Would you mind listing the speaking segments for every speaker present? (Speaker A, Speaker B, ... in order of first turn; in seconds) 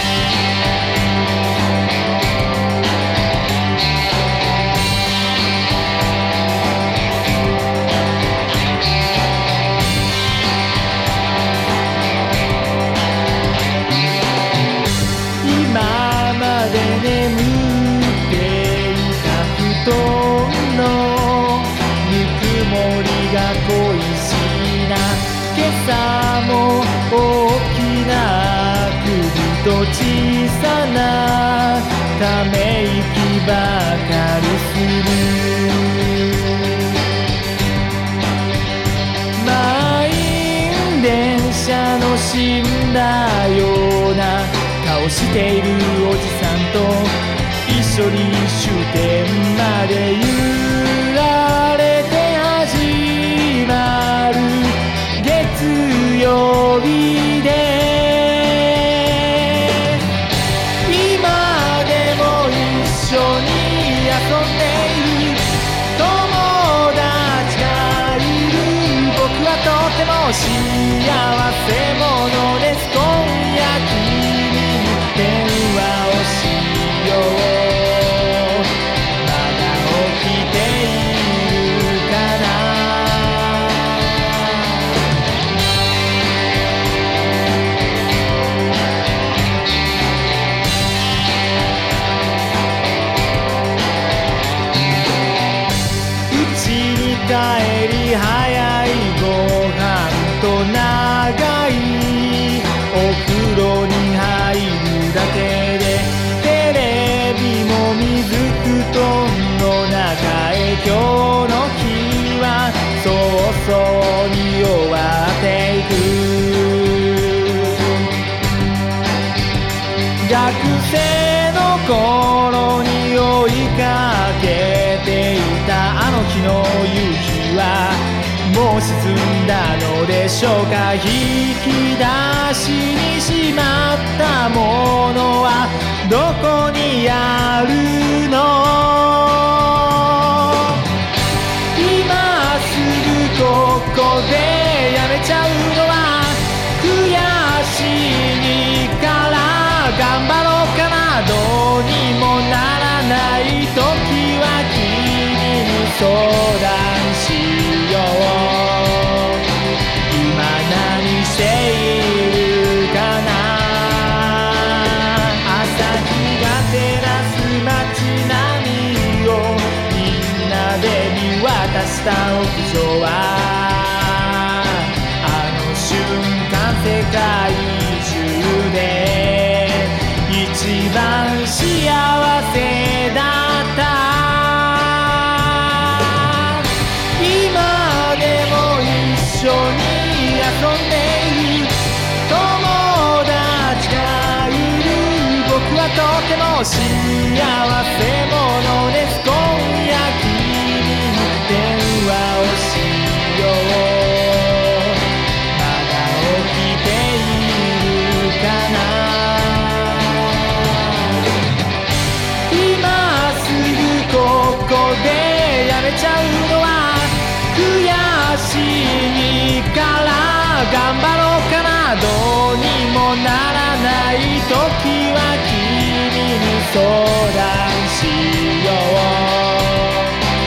Speaker A: 15.4-36.1, 39.4-60.0, 60.8-65.4, 65.9-78.7, 79.2-83.7, 96.3-117.5, 120.2-140.8, 141.7-159.4, 160.1-191.7, 192.2-205.0, 205.5-211.0, 212.5-230.1